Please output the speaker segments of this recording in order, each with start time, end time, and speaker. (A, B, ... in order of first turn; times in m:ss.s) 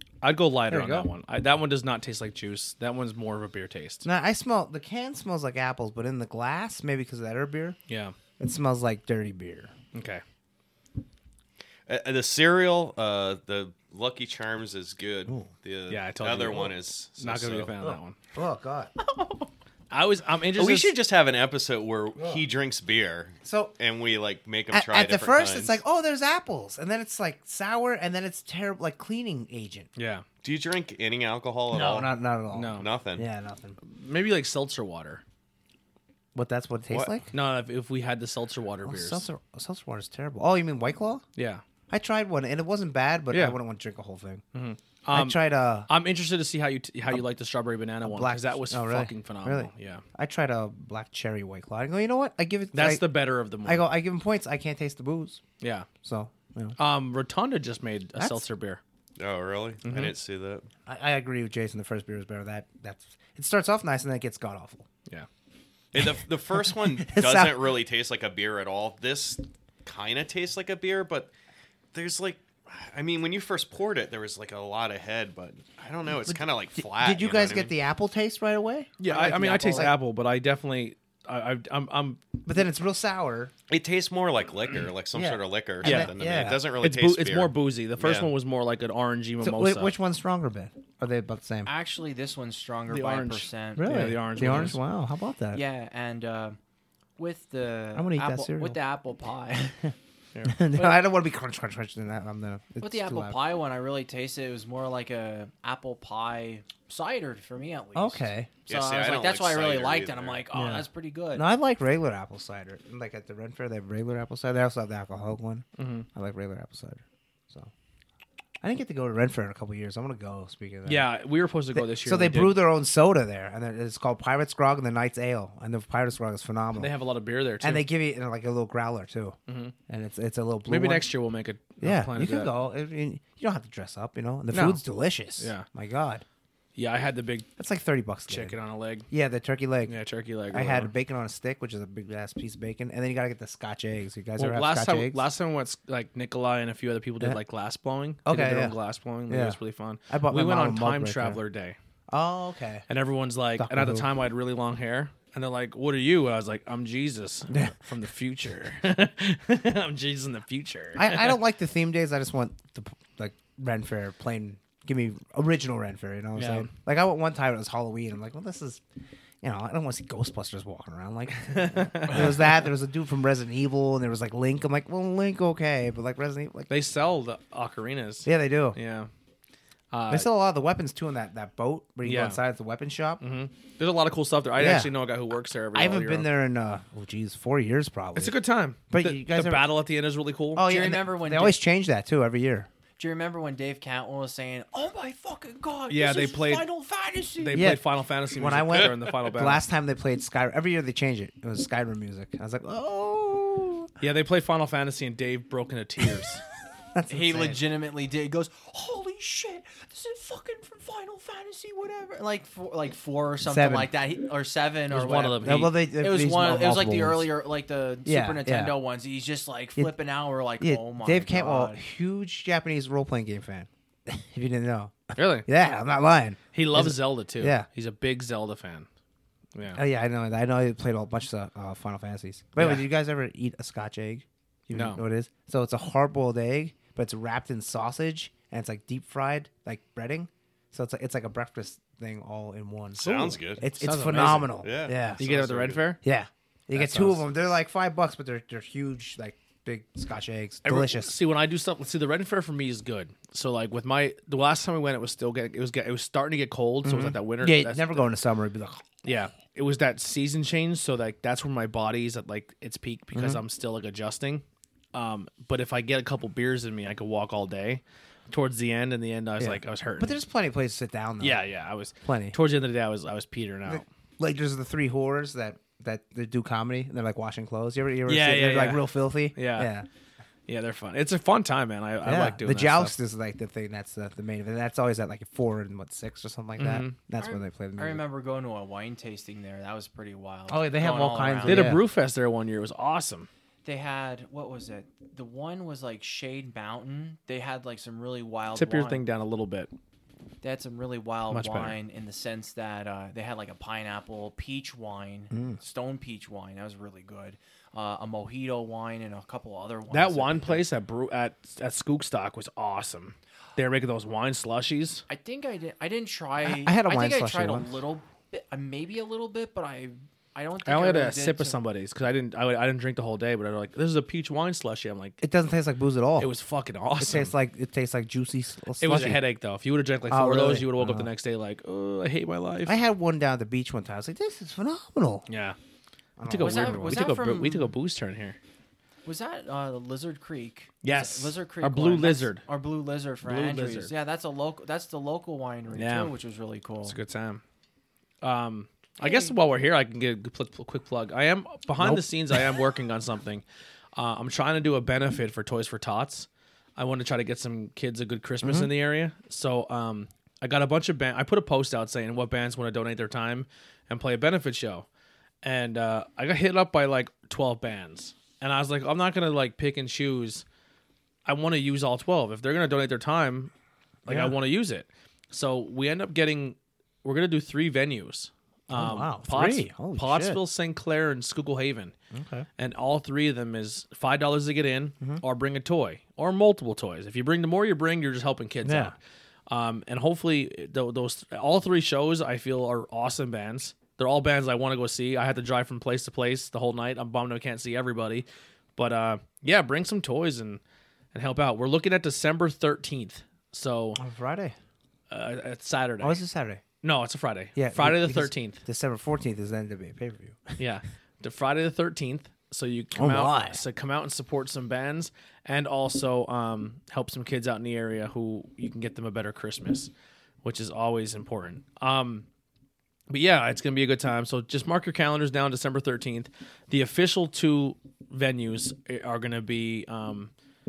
0:00.2-0:04.0 A
0:00.7-0:01.1 B
0:04.0-0:07.8 B
0:07.9-0:08.1 A
0:08.4-0:09.7 B
0:09.9-0:10.2 A
0:11.9-0:17.7 C
0:15.9-0:18.2 A
0:17.8-0:18.9 B
0:19.0-0:19.5 D
0:19.9-0:21.0 A
0:20.5-0:25.8 C
0:22.2-0:22.4 B
0:23.4-0:23.7 B
0:24.7-0:29.9 B
0:30.0-0:30.2 A
0:30.4-0:32.1 C
0:31.7-0:33.8 B
0:32.5-0:32.9 A
0:32.8-0:33.2 C
0:33.8-0:35.2 A
0:36.3-0:37.3 B
0:37.3-0:39.2 A
0:38.8-0:41.2 B
0:41.4-0:41.6 A
0:41.9-0:44.4 B
0:43.3-0:43.6 A
0:44.5-0:50.0 A
0:45.1-0:45.9 B
0:48.0-0:55.4 B
0:52.7-0:53.9 A
0:55.6-0:55.9 A
0:56.0-0:56.8 B
0:56.8-0:58.8 A
0:58.2-0:58.4 B
0:59.2-1:00.6 C
0:59.8-1:00.1 A
1:00.8-1:04.8 B
1:05.9-1:11.3 C
1:06.0-1:07.8 B
1:11.9-1:17.7 C
1:16.2-1:20.0 B
1:19.0-1:22.2 A
1:19.1-1:19.9 D
1:22.4-1:23.5 B
1:23.7-1:28.3 C
1:25.1-1:26.6 B
1:25.8-1:26.1 A
1:26.8-1:29.9 A
1:29.4-1:31.7 B
1:31.6-1:34.7 D
1:32.9-1:34.8 A
1:33.8-1:35.6 B
1:35.5-1:36.6 D
1:37.2-1:39.9 D
1:37.9-1:38.8 B
1:40.3-1:40.6 A
1:40.4-1:43.4 B
1:42.8-1:51.5 D
1:47.9-1:48.5 B
1:48.7-1:50.4 C
1:50.5-1:57.7 B
1:55.8-1:56.0 A
1:58.6-2:01.1 B
2:00.8-2:02.6 A
2:01.7-2:06.9 B
2:06.8-2:07.8 A
2:07.6-2:09.4 B
2:09.5-2:09.7 A
2:09.9-2:11.1 B
2:10.7-2:12.5 A
2:11.8-2:16.2 B
2:14.5-2:14.8 A
2:15.4-2:15.6 A
2:16.8-2:17.5 A
2:17.6-2:18.5 B
2:18.3-2:19.1 A
2:19.1-2:20.0 B
2:19.9-2:20.9 A
2:20.5-2:25.2 B
2:24.4-2:31.8 A
2:28.2-2:28.8 B
2:29.3-2:29.6 B
2:30.1-2:31.4 B
2:32.1-2:32.8 B
2:32.9-2:41.4 A
2:33.6-2:34.1 B
2:37.5-2:37.8 B
2:41.0-2:48.8 B
2:46.3-2:46.7 A
2:49.4-2:56.7 B
2:51.5-2:52.4 A
2:56.7-2:59.1 A
2:58.2-2:58.8 B
2:59.9-3:00.3 A
3:00.1-3:03.2 B
3:02.0-3:02.4 A
3:03.2-3:06.3 A
3:04.6-3:04.9 B
3:05.7-3:08.4 B
3:08.1-3:10.8 A
3:08.9-3:09.7 B
3:10.5-3:12.7 B
3:10.6-3:11.6 D
3:13.0-3:17.6 D
3:15.9-3:16.6 A
3:17.4-3:19.6 A
3:17.5-3:23.9 B
3:24.0-3:26.4 A
3:26.9-3:27.6 B
3:27.1-3:41.8 D
3:33.4-3:33.9 B
3:34.9-3:35.7 A
3:35.4-3:37.3 B
3:38.0-3:38.8 B
3:40.6-3:47.7 B
3:45.2-3:45.5 A
3:46.5-3:48.9 A
3:49.5-3:49.8 A
3:49.7-4:05.2 B
3:52.6-3:52.8 A
3:54.7-3:55.0 A
4:02.9-4:03.6 C
4:03.6-4:04.6 A
4:04.4-4:05.8 C
4:05.2-4:06.0 A
4:06.0-4:11.1 B
4:06.7-4:07.2 A
4:10.6-4:18.0 A
4:16.8-4:18.8 B
4:19.0-4:30.2 A
4:23.1-4:23.4 B
4:29.4-4:31.4 B
4:31.2-4:33.8 A
4:32.0-4:32.4 B
4:33.6-4:39.8 B
4:38.0-4:39.7 A
4:40.5-4:42.9 A
4:42.0-4:48.0 B
4:46.6-4:46.9 A
4:47.2-4:51.8 D
4:50.5-4:51.8 B
4:51.4-4:53.3 A
4:53.6-4:59.0 D
4:58.5-4:59.7 A
5:00.4-5:10.6 D
5:01.3-5:01.8 A
5:05.3-5:05.6 B
5:09.9-5:15.0 A
5:15.1-5:21.6 D
5:16.4-5:17.7 B
5:20.6-5:25.2 A
5:25.2-5:26.3 B
5:26.2-5:27.3 A
5:27.0-5:29.2 B
5:28.8-5:32.8 A
5:30.1-5:31.1 B
5:32.6-5:35.2 B
5:35.3-5:35.6 A
5:36.2-5:37.0 B
5:36.2-5:38.4 A
5:36.4-5:37.7 D
5:39.0-5:47.0 D
5:40.8-5:42.4 A
5:43.2-5:43.9 A
5:45.7-5:46.1 A
5:46.8-5:47.4 A
5:48.2-5:53.4 A
5:49.0-5:49.3 D
5:51.8-5:52.4 B
5:53.9-6:04.8 A
5:58.4-5:58.7 B
6:05.4-6:10.4 A
6:11.2-6:13.5 A
6:14.0-6:14.4 B
6:14.0-6:21.9 A
6:18.7-6:20.4 B
6:22.1-6:22.5 B
6:22.6-6:28.9 A
6:28.6-6:28.9 B
6:29.5-6:40.6 A
6:41.1-6:44.0 A
6:44.0-6:44.5 B
6:45.1-6:46.2 A
6:46.0-6:46.6 B
6:46.8-6:48.6 A
6:47.5-6:50.6 B
6:50.6-6:59.9 A
6:52.9-6:53.6 B
7:00.4-7:02.2 A
7:03.1-7:10.3 A